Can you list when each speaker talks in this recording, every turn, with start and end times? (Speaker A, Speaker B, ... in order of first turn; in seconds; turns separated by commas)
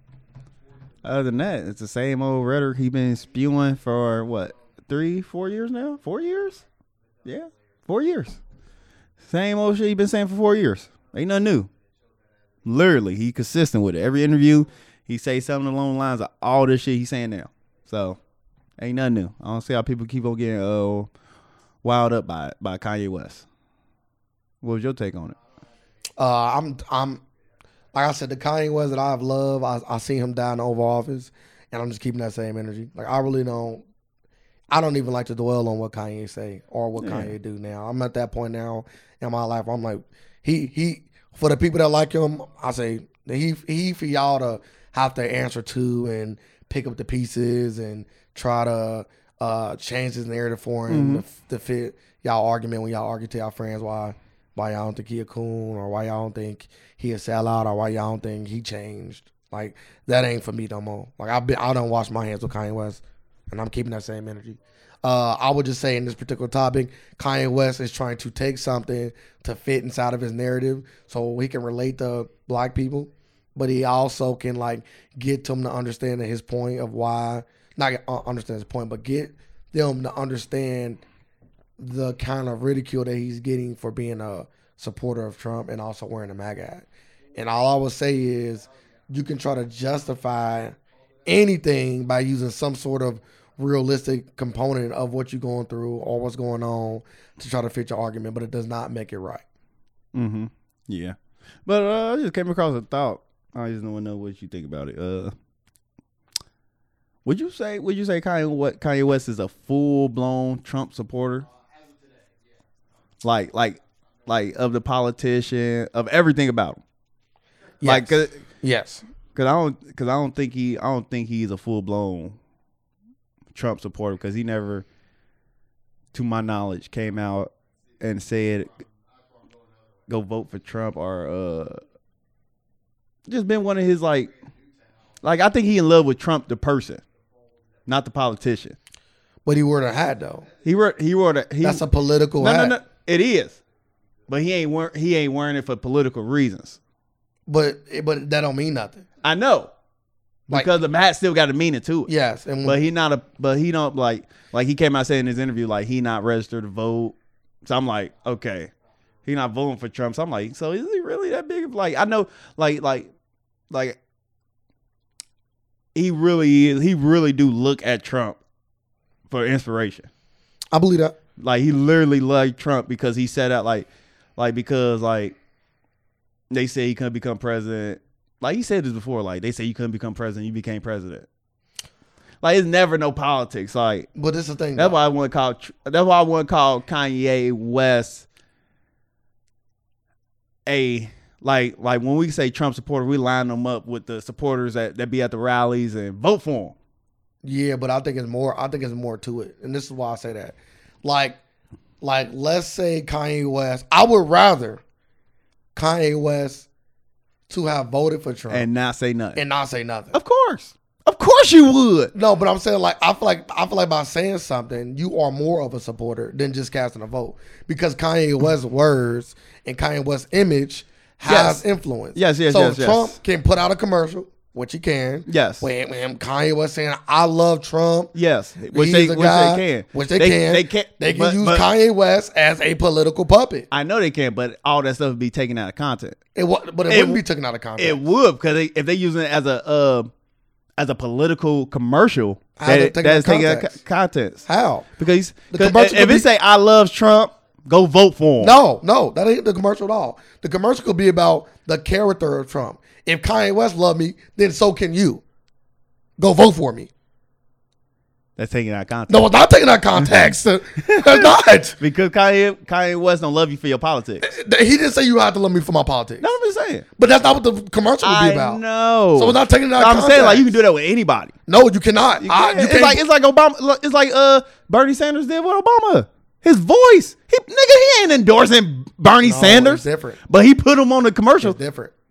Speaker A: 1.0-6.6, Speaker A: 7.2-8.4, Speaker A: 9.2-11.7, Speaker A: 12.6-18.2, Speaker A: 18.8-21.1, Speaker A: 21.8-23.4, Speaker A: 24.6-25.4, Speaker B: 26.2-27.2, Speaker B: 27.9-33.8, Speaker B: 34.7-81.0, Speaker A: 37.0-37.3, Speaker A: 50.9-51.2, Speaker B: 81.8-99.4, Speaker A: 100.1-105.3, Speaker A: 107.2-111.5, Speaker A: 113.2-116.8, Speaker B: 117.8-119.0, Speaker A: 117.8-118.4, Speaker A: 119.3-122.3, Speaker A: 123.5-124.8, Speaker A: 126.1-128.7, Speaker A: 130.1-131.8, Speaker A: 133.3-134.3, Speaker A: 135.2-137.0, Speaker A: 137.8-138.8, Speaker B: 139.4-140.5, Speaker A: 140.6-141.8, Speaker B: 141.6-142.8, Speaker A: 142.4-143.6, Speaker A: 144.3-146.8, Speaker B: 147.5-149.0, Speaker A: 149.2-149.7, Speaker A: 150.5-152.1, Speaker B: 152.1-152.8, Speaker A: 152.6-158.7, Speaker A: 159.2-163.1, Speaker A: 163.7-164.0, Speaker A: 165.9-168.4, Speaker A: 169.3-170.1, Speaker B: 170.7-171.1, Speaker A: 171.4-175.3, Speaker A: 176.5-181.3, Speaker A: 182.4-184.1, Speaker B: 184.1-185.0, Speaker A: 184.8-188.2, Speaker A: 190.7-196.7, Speaker B: 197.4-201.4, Speaker B: 202.0-204.8, Speaker B: 205.7-206.7, Speaker B: 207.5-208.7, Speaker A: 208.5-209.4, Speaker B: 209.3-210.2, Speaker A: 210.1-212.1, Speaker B: 212.1-228.1, Speaker A: 221.2-221.6, Speaker A: 222.1-223.2, Speaker A: 225.3-225.7, Speaker A: 228.1-231.6, Speaker B: 228.7-233.7, Speaker A: 233.7-236.2, Speaker B: 236.3-238.0, Speaker A: 236.9-237.2, Speaker A: 237.8-240.1, Speaker A: 240.8-244.4, Speaker B: 242.6-243.7, Speaker B: 244.5-244.9, Speaker A: 245.0-248.6, Speaker B: 245.5-246.3, Speaker B: 248.4-255.2, Speaker B: 256.2-256.9, Speaker A: 258.4-259.3, Speaker B: 259.1-261.8, Speaker A: 260.8-264.3, Speaker B: 264.2-266.3, Speaker A: 266.2-266.8, Speaker B: 267.0-268.6, Speaker A: 268.0-271.3, Speaker B: 269.1-270.5, Speaker B: 271.5-273.0, Speaker A: 272.2-281.6, Speaker B: 279.2-280.2, Speaker B: 281.4-281.9